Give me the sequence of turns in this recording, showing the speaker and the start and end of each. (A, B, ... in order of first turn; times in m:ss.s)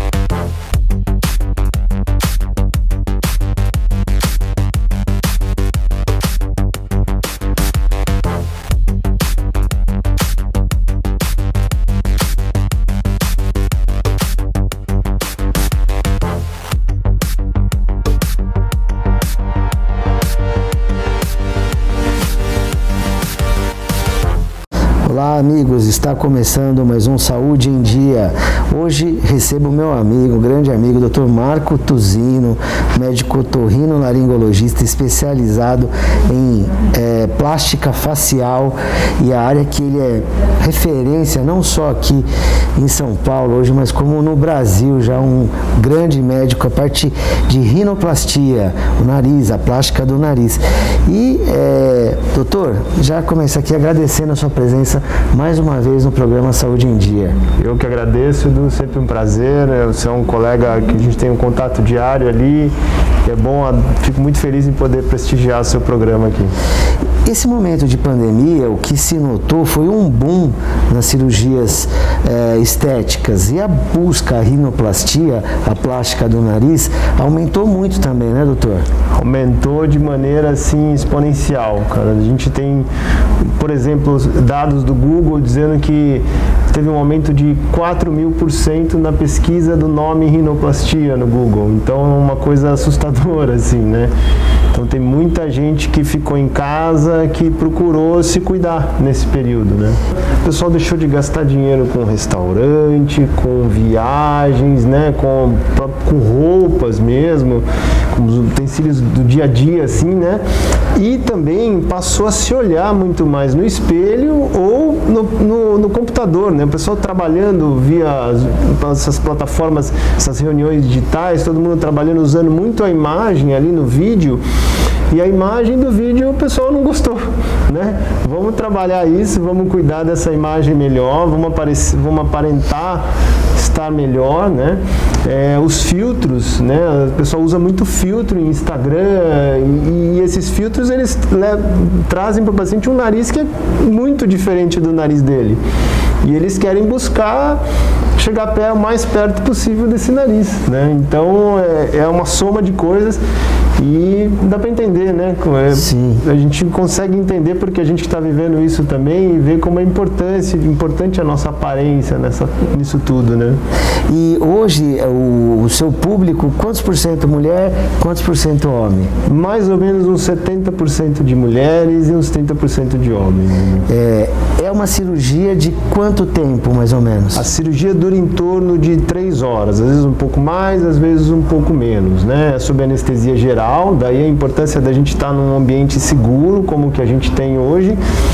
0:25.0-0:57.4 A
0:57.6-1:06.5 B
1:07.2-1:18.8 A
1:19.2-1:22.9 B
1:23.4-1:34.1 B
1:34.7-1:50.4 B
1:50.9-2:04.4 B
2:05.1-2:25.6 B
2:26.2-2:27.6 B
2:28.2-2:33.2 B
2:33.8-2:43.6 B
2:35.7-2:36.2 A
2:44.1-2:49.1 A
2:49.2-2:53.9 B
2:53.9-2:57.4 A
2:57.3-3:08.0 B